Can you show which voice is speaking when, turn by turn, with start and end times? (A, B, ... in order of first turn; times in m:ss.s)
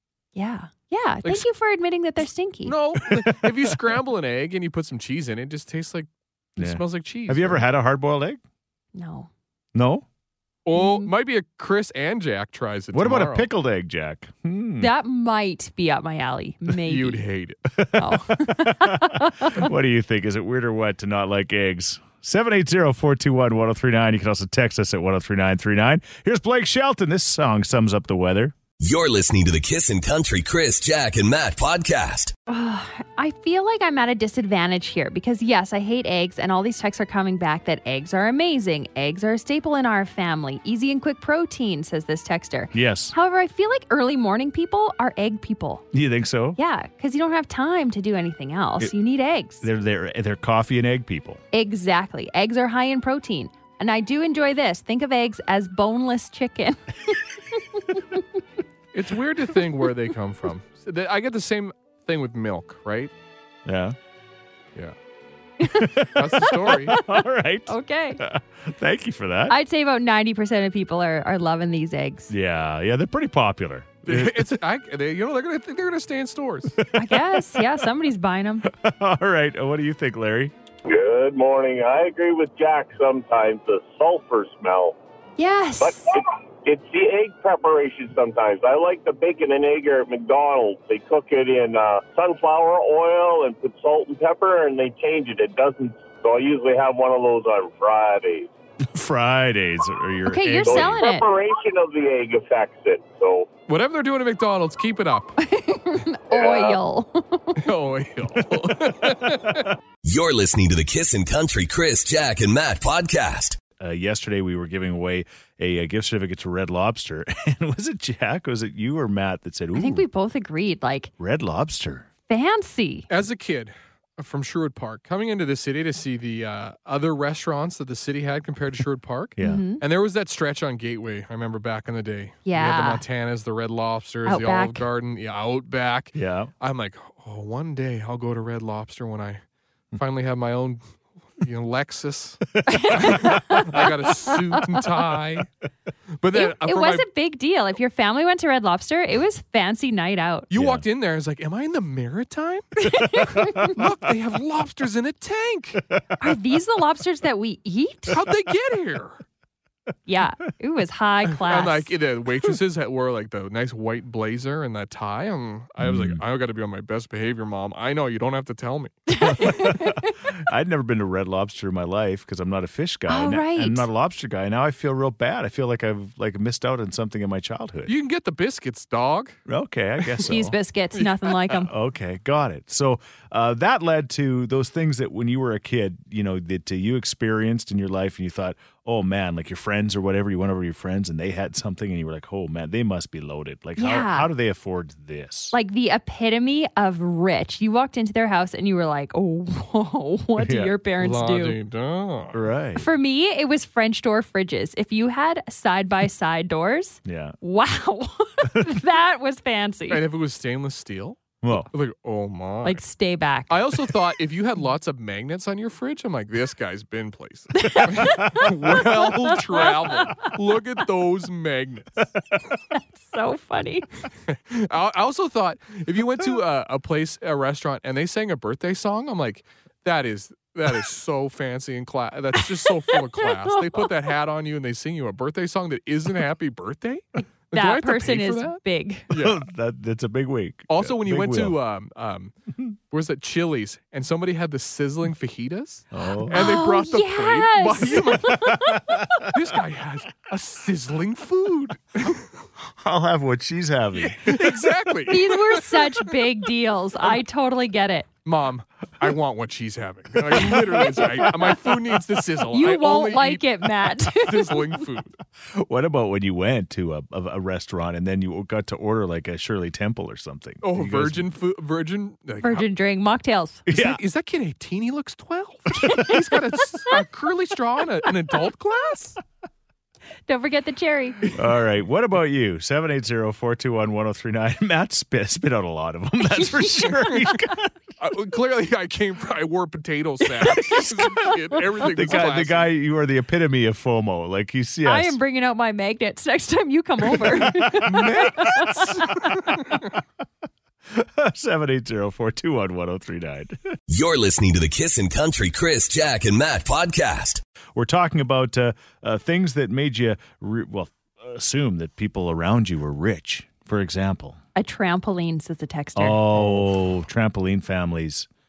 0:00.3-0:02.7 A
0:02.6-0:07.6 B
0:03.2-0:03.6 C
0:06.6-0:08.4 C
0:08.9-0:09.3 A
0:09.7-0:10.0 C
0:10.6-0:13.5 B
0:10.7-0:11.1 A
0:12.9-0:14.9 C
0:14.8-0:17.2 A
0:16.8-0:17.7 B
0:17.8-0:28.6 C
0:18.0-0:19.6 A
0:28.8-0:32.3 D
0:32.5-0:45.8 A
0:42.7-0:43.1 C
0:45.9-0:46.6 C
0:46.6-0:49.6 A
0:49.6-0:51.4 C
0:51.5-0:57.2 A
0:57.8-0:58.2 A
0:58.9-1:03.1 B
1:03.6-1:04.0 C
1:05.6-1:08.2 A
1:05.7-1:09.5 C
1:06.1-1:07.0 B
1:09.5-1:12.3 A
1:12.3-1:14.6 C
1:14.0-1:16.8 B
1:16.9-1:18.7 A
1:17.0-1:17.6 C
1:18.6-1:20.5 C
1:20.8-1:25.0 E
1:25.4-1:26.2 A
1:25.8-1:38.5 E
1:38.8-1:41.0 C
1:40.3-1:41.3 A
1:40.6-1:43.5 E
1:43.7-1:45.4 B
1:45.4-1:47.6 A
1:46.3-1:46.8 E
1:47.6-1:49.7 B
1:50.0-1:53.6 D
1:53.8-2:00.0 C
1:59.7-2:01.1 A
2:01.2-2:02.1 C
2:02.3-2:03.1 A
2:03.1-2:19.4 B
2:09.4-2:09.6 C
2:09.4-2:09.8 A
2:12.4-2:13.0 A
2:14.2-2:14.8 A
2:16.1-2:16.5 C
2:19.9-2:20.8 B
2:21.4-2:25.5 B
2:22.7-2:24.8 A
2:26.2-2:27.0 B
2:26.3-2:30.5 A
2:30.5-2:35.8 B
2:30.5-2:30.8 C
2:32.8-2:33.7 A
2:36.2-2:38.2 A
2:38.1-2:39.2 B
2:40.1-2:41.9 A
2:41.4-2:49.1 B
2:45.8-2:46.2 C
2:49.1-2:50.1 A
2:49.2-2:57.9 C
2:53.1-2:53.9 A
2:57.8-2:59.4 B
2:59.5-3:00.6 C
3:00.2-3:01.7 A
3:01.0-3:01.3 B
3:01.7-3:15.5 C
3:13.8-3:14.3 A
3:15.5-3:21.6 A
3:20.4-3:20.7 C
3:21.0-3:22.4 B
3:22.3-3:22.9 C
3:22.8-3:30.0 A
3:27.0-3:27.4 C
3:29.9-3:32.8 B
3:31.4-3:31.7 C
3:32.6-3:33.6 A
3:33.5-3:42.0 B
3:37.6-3:40.3 A
3:42.7-3:43.9 A
3:44.3-3:59.4 B
3:57.5-3:59.1 A
3:59.1-4:01.6 C
4:00.7-4:02.3 B
4:02.9-4:08.6 B
4:05.9-4:06.6 C
4:06.3-4:09.0 A
4:08.4-4:09.1 C
4:09.2-4:12.3 B
4:12.6-4:14.6 C
4:14.0-4:16.2 B
4:15.1-4:18.1 A
4:18.2-4:25.2 B
4:22.5-4:24.6 A
4:25.5-4:31.3 C
4:30.6-4:32.6 B
4:32.4-4:33.6 A
4:33.7-4:34.0 C
4:33.7-4:39.2 B
4:35.8-4:36.1 A
4:40.3-4:41.2 A
4:41.3-4:47.7 C
4:48.0-4:52.7 B
4:50.4-4:51.3 A
4:51.8-4:55.2 C
4:54.8-4:59.3 A
4:57.7-4:59.8 B
5:00.9-5:03.7 C
5:03.9-5:07.4 D
5:07.7-5:14.4 C
5:14.6-5:16.2 A
5:16.0-5:18.3 C